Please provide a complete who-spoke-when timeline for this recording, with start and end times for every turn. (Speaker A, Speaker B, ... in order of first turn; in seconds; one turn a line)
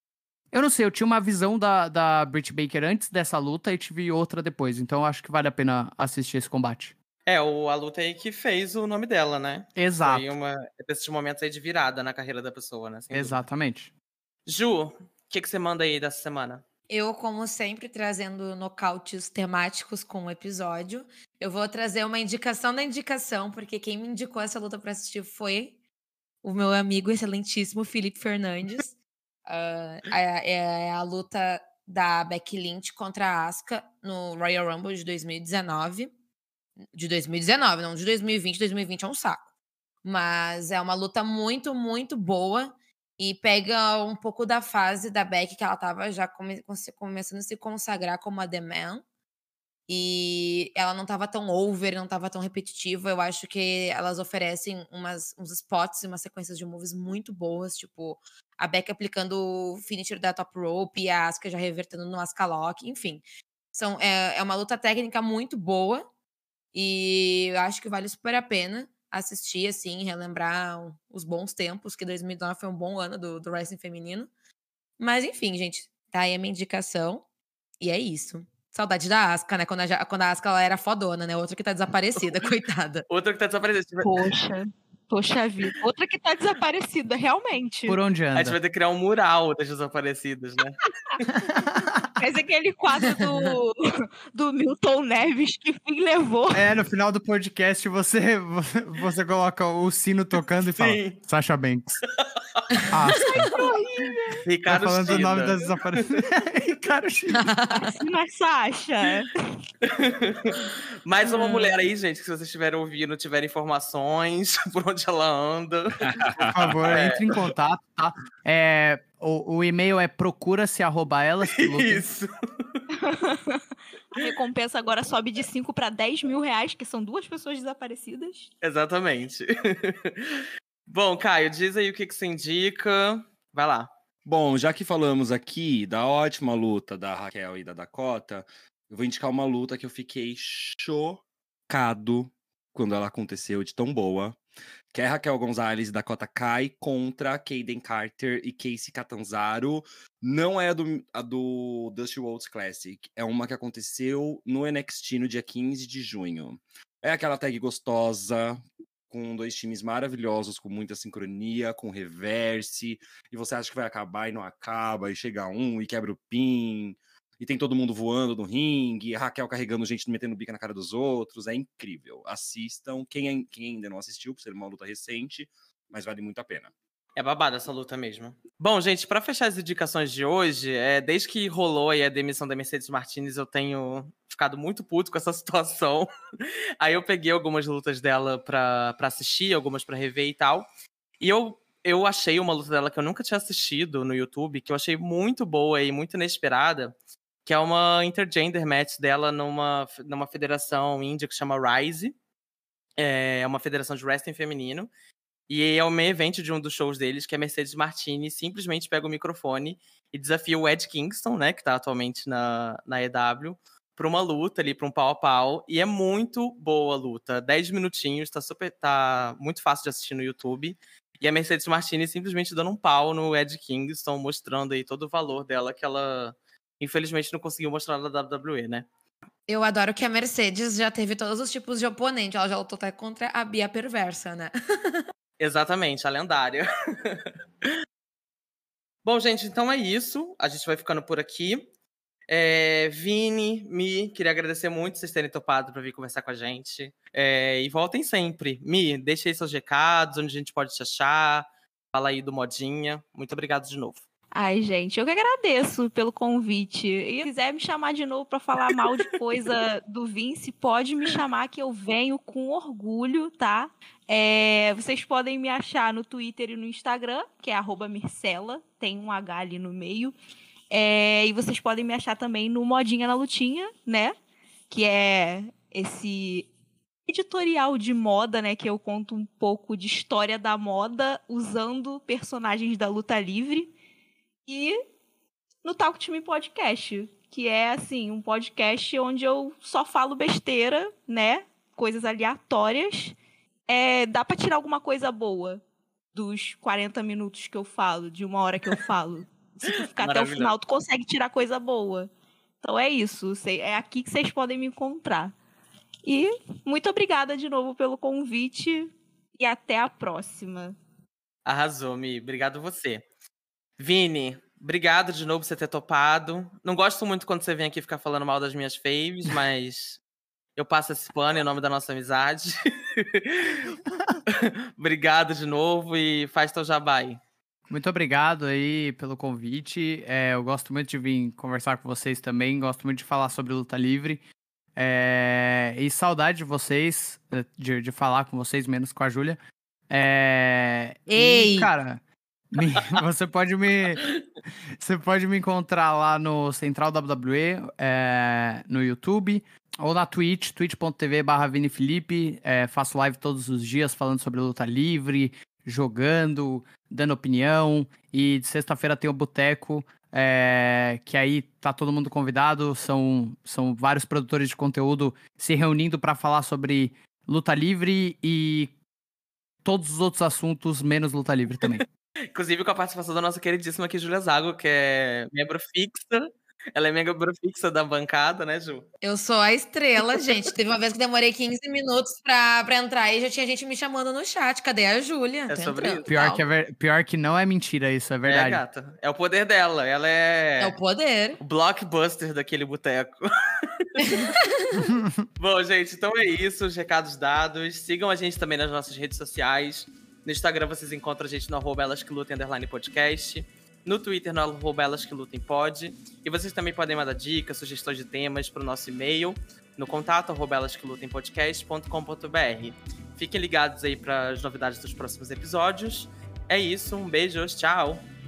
Speaker A: 0.5-6.9
Speaker B: 7.3-13.4
Speaker A: 9.8-10.3
Speaker A: 13.1-13.9
Speaker B: 14.4-16.6
Speaker C: 16.9-25.8
Speaker C: 26.4-28.9
Speaker C: 29.5-36.1
Speaker C: 36.9-39.5
Speaker C: 40.0-49.0
Speaker C: 49.9-66.0
Speaker C: 66.7-74.3
Speaker C: 75.0-77.2
Speaker C: 77.8-83.0
Speaker B: 82.2-82.5
Speaker B: 83.1-84.3
Speaker D: 84.0-88.0
Speaker A: 87.9-88.6
Speaker B: 88.3-90.8
Speaker A: 91.3-92.1
Speaker D: 92.2-96.7
Speaker C: 93.2-93.5
Speaker A: 96.5-102.0
Speaker B: 100.7-101.2
Speaker C: 102.7-103.7
Speaker A: 102.9-103.5
Speaker D: 103.4-104.5
Speaker B: 104.5-106.1
Speaker A: 104.7-107.5
Speaker C: 107.3-108.0
Speaker D: 107.7-109.6
Speaker B: 109.8-117.2
Speaker D: 111.3-111.7
Speaker E: 116.1-116.7
Speaker A: 116.5-122.1
Speaker B: 121.5-122.8
Speaker D: 122.9-128.5
Speaker B: 128.6-133.9
Speaker E: 134.2-144.4
Speaker E: 144.9-176.7
Speaker B: 177.2-186.1
Speaker B: 186.8-190.7
Speaker B: 191.2-196.9
Speaker B: 197.4-202.1
Speaker B: 203.0-204.9
Speaker B: 205.5-228.9
Speaker C: 229.5-235.0
Speaker B: 235.4-237.7
Speaker B: 239.1-241.7
Speaker B: 242.3-254.1
Speaker D: 254.3-270.2
Speaker D: 270.7-274.1
Speaker D: 274.7-276.5
Speaker D: 277.1-283.7
Speaker D: 284.4-284.8
Speaker D: 285.6-293.2
Speaker D: 293.7-295.6
Speaker D: 296.1-302.1
Speaker B: 299.7-300.5
Speaker D: 302.6-305.4
Speaker D: 306.1-310.8
Speaker B: 311.4-313.0
Speaker B: 313.8-320.0
Speaker B: 320.6-323.7
Speaker B: 324.3-327.2
Speaker A: 327.7-334.2
Speaker A: 334.8-339.4
Speaker A: 339.9-344.1
Speaker C: 341.1-341.7
Speaker A: 344.8-368.7
Speaker A: 369.6-371.9
Speaker B: 372.3-378.9
Speaker C: 379.0-386.4
Speaker B: 385.5-386.1
Speaker A: 386.1-388.6
Speaker B: 388.3-390.8
Speaker C: 390.6-391.4
Speaker B: 391.4-394.2
Speaker C: 394.0-394.9
Speaker A: 394.9-395.2
Speaker B: 395.4-418.1